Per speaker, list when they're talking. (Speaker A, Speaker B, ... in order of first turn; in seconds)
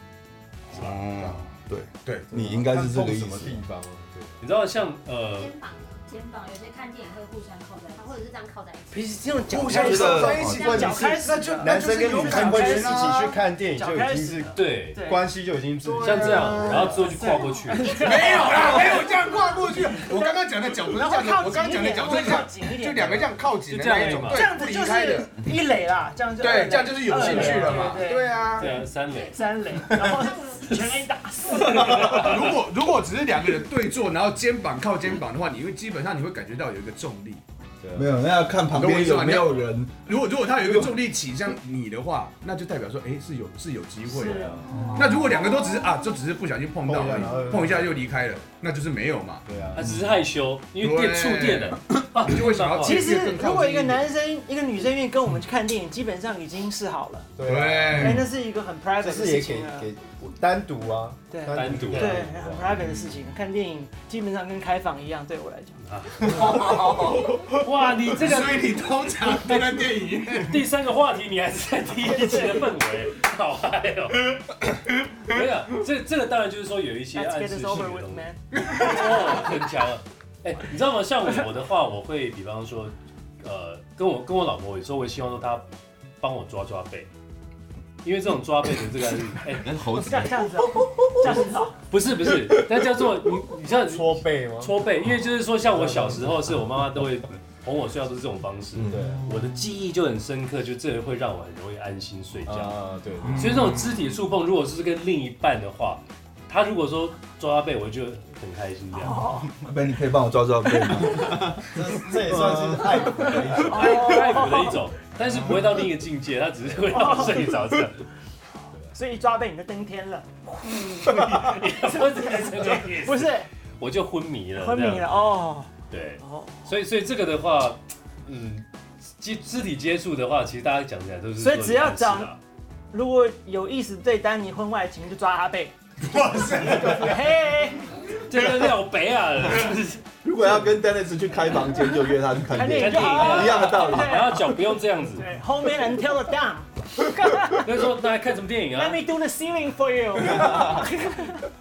Speaker A: 0.7-2.4, 9.5-13.2, 16.0-16.9, 18.0-25.3, 26.4-28.8, 32.1-37.4, 38.7-49.4, 50.8-54.1, 57.4-58.3, 66.4-67.1, 68.1-70.6, 78.6-79.4, 99.0-99.5, 103.2-104.0, 115.3-115.6, 136.0-137.3
Speaker B: 0.7-3.6, 9.8-10.4, 31.8-32.1, 38.0-39.9, 44.8-45.1, 98.8-99.0, 109.5-112.8, 140.2-144.3
Speaker C: 2.3-4.4, 10.5-11.1, 11.6-17.1, 37.8-38.1, 44.4-44.7, 46.8-48.0, 49.5-49.9, 57.4-58.2, 59.0-62.8, 93.6-94.8, 95.7-96.3, 98.8-99.2, 102.5-103.6, 111.6-114.0
Speaker D: 4.4-5.5, 14.5-15.0, 16.0-18.0, 23.7-24.5, 27.1-27.9, 28.6-29.7, 31.7-32.4, 49.7-53.2, 61.5-62.3, 65.8-68.7, 69.2-74.5, 75.2-85.7, 86.2-87.1, 88.0-89.7, 91.9-102.8, 103.3-109.3, 113.7-118.1, 121.0-125.2, 125.9-128.7, 129.2-132.4, 138.2-140.0, 142.7-145.3, 147.5-149.0
Speaker E: 5.3-9.5, 10.2-11.2
Speaker F: 8.9-15.3, 16.8-23.4, 24.2-32.4, 44.1-44.8, 52.8-57.3, 57.9-59.9, 61.3-65.8, 72.0-72.7, 77.1-78.4, 89.9-91.8, 109.0-109.5, 113.6-114.8, 116.9-117.7, 118.9-123.5, 124.5-126.6, 131.4-132.4, 132.9-135.7, 136.5-137.9, 142.5-147.7, 148.8-151.4
Speaker G: 9.9-10.6, 89.6-91.5